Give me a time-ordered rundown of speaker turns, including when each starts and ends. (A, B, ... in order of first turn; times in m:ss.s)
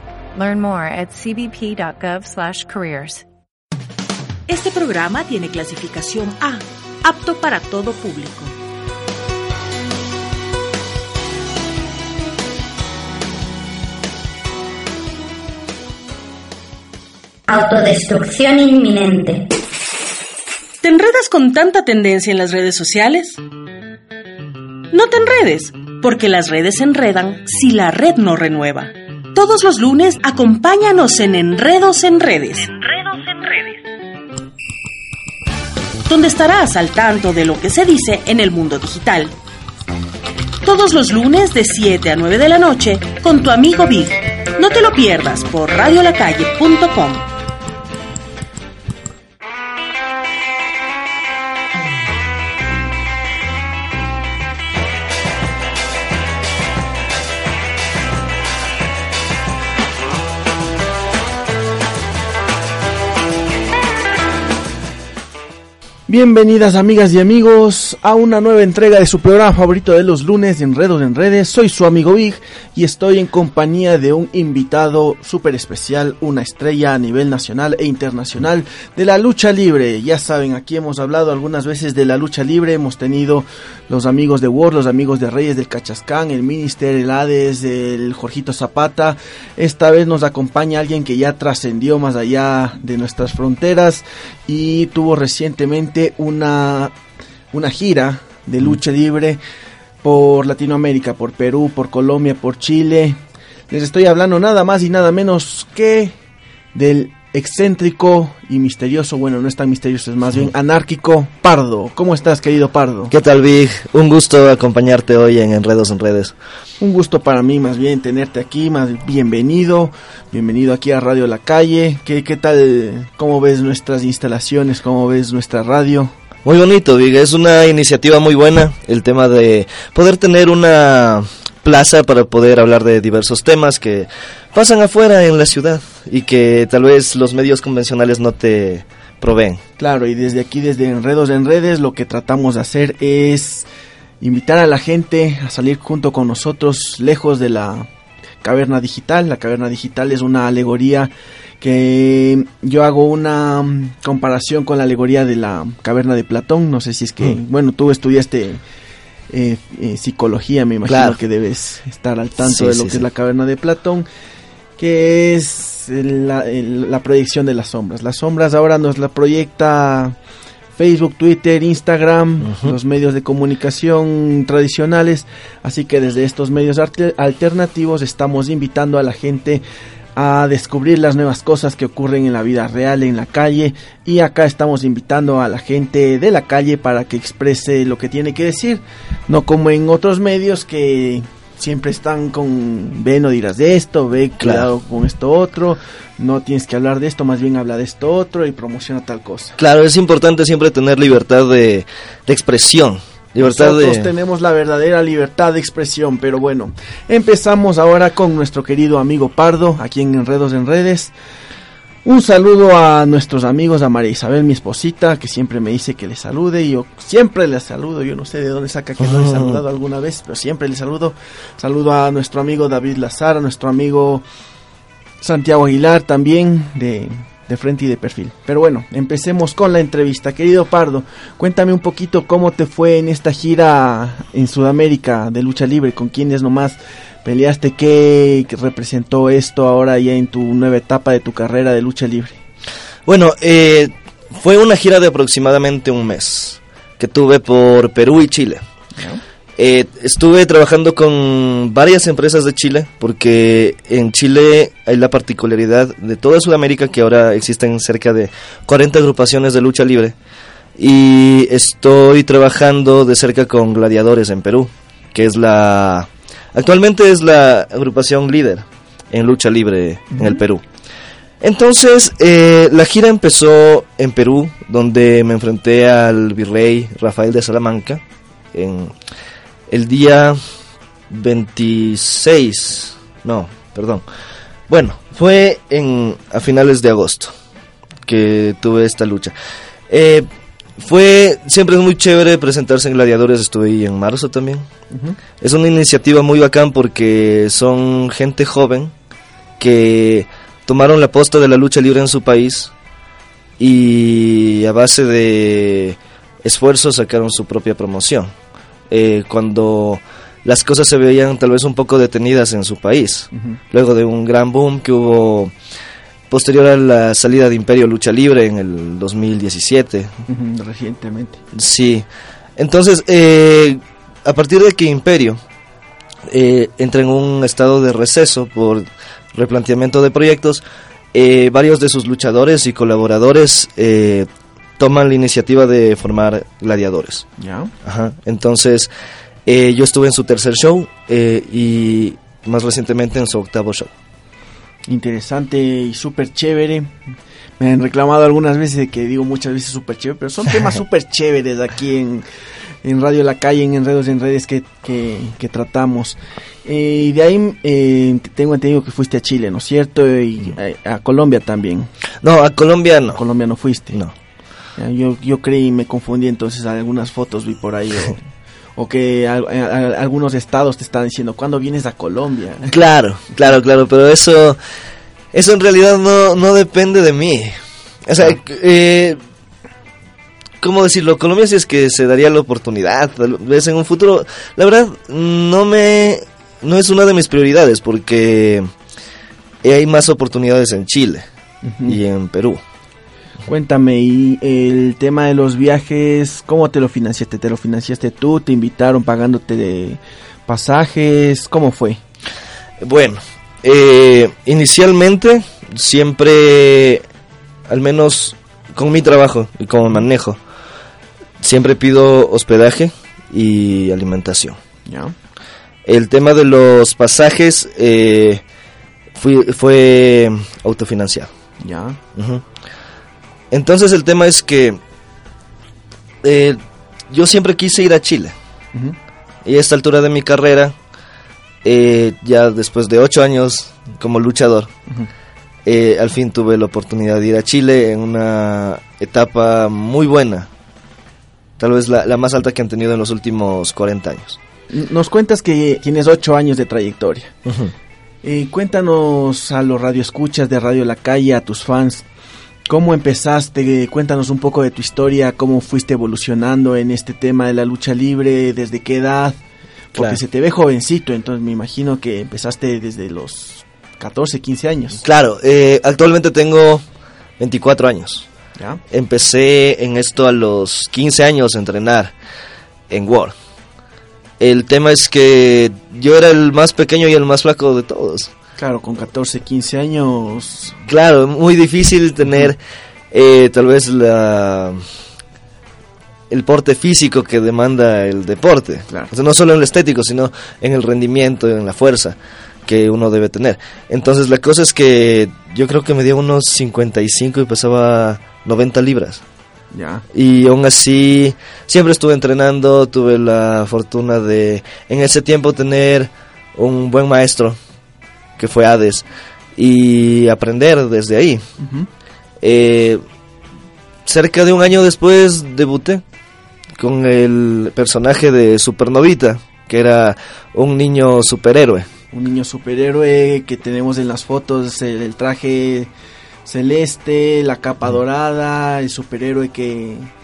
0:00.3-0:03.2 A
0:04.5-0:08.6 B
0:17.5-0:19.4 C
0:20.8-0:23.4 B
0:24.9-0:33.8 B
0:36.0-0:39.4 B
0:40.6-0:47.3 B
1:06.1-1:36.9 D
1:37.5-1:39.4 D
1:40.0-1:43.2 D
1:43.7-1:46.2 D
1:46.7-1:53.1 D
1:53.1-1:56.3 E
1:56.8-2:06.1 D
2:06.4-2:19.6 E
2:19.8-2:23.6 D
2:24.2-2:27.9 D
2:28.4-2:38.6 D
2:39.3-2:44.1 D
2:40.8-2:41.2 E
2:42.4-2:43.0 E
2:44.8-2:50.2 D
2:50.8-2:59.6 D
2:52.4-2:52.8 E
3:00.1-3:19.6 D
3:14.4-3:14.7 E
3:19.6-3:24.1 E
3:23.4-3:31.1 D
3:32.0-3:44.2 D
3:39.0-3:39.6 E
3:45.2-4:02.4 D
4:03.1-4:08.6 E
4:09.0-4:09.2 D
4:09.6-4:20.2 E
4:20.8-4:30.6 E
4:31.4-4:38.0 E
4:38.5-4:39.0 E
4:39.7-4:40.4 E
4:41.1-4:44.0 E
4:44.7-4:47.3 E
4:48.0-4:49.3 E
4:49.9-4:50.3 E
4:50.8-4:54.7 E
4:54.9-4:55.2 D
4:55.4-4:58.9 E
4:59.6-5:02.7 E
5:03.6-5:08.3 E
5:08.9-5:15.5 E
5:13.3-5:13.6 D
5:16.3-5:20.1 E
5:20.2-5:21.4 D
5:21.5-5:25.4 E
5:26.3-5:37.2 E
5:37.4-5:37.7 D
5:37.8-5:38.9 E
5:39.4-5:43.9 E
5:44.9-5:46.9 D
5:47.6-5:52.2 D
5:52.8-6:01.9 D
6:02.2-6:03.2 E
6:03.1-6:04.0 D
6:04.8-6:08.2 D
6:08.8-6:12.7 D
6:12.7-6:14.6 E
6:15.3-6:17.6 E
6:18.1-6:19.2 E
6:20.6-6:28.7 E
6:29.6-6:31.2 E
6:31.6-6:32.0 D
6:31.8-6:32.6 E
6:33.4-6:42.0 D
6:42.8-6:47.0 E
6:47.7-6:50.4 E
6:51.4-6:54.6 E
6:54.8-6:55.1 D
6:55.8-6:58.4 E
6:59.1-7:01.3 E
7:01.6-7:02.0 D
7:02.1-7:02.4 E
7:03.5-7:04.8 E
7:06.2-7:08.3 E
7:09.4-7:10.8 E
7:11.6-7:14.7 E
7:15.6-7:20.5 E
7:21.6-7:24.4 E
7:24.7-7:27.3 D
7:27.4-7:27.7 E
7:28.2-7:32.0 D
7:32.7-7:39.4 D
7:39.9-7:40.2 E
7:39.9-7:45.0 D
7:45.0-7:46.8 E
7:47.4-7:48.3 E
7:48.9-7:52.1 E
7:52.9-7:53.3 E
7:54.4-7:58.3 E
7:58.6-8:00.8 D
8:00.8-8:02.6 E
8:03.1-8:04.8 E
8:06.3-8:19.2 E
8:19.7-8:20.0 D
8:20.1-8:27.6 E
8:28.4-8:31.4 E
8:31.6-8:31.9 D
8:32.4-8:33.0 E
8:34.0-8:36.0 E
8:36.8-8:41.9 E
8:42.1-8:45.9 D
8:46.5-8:50.1 D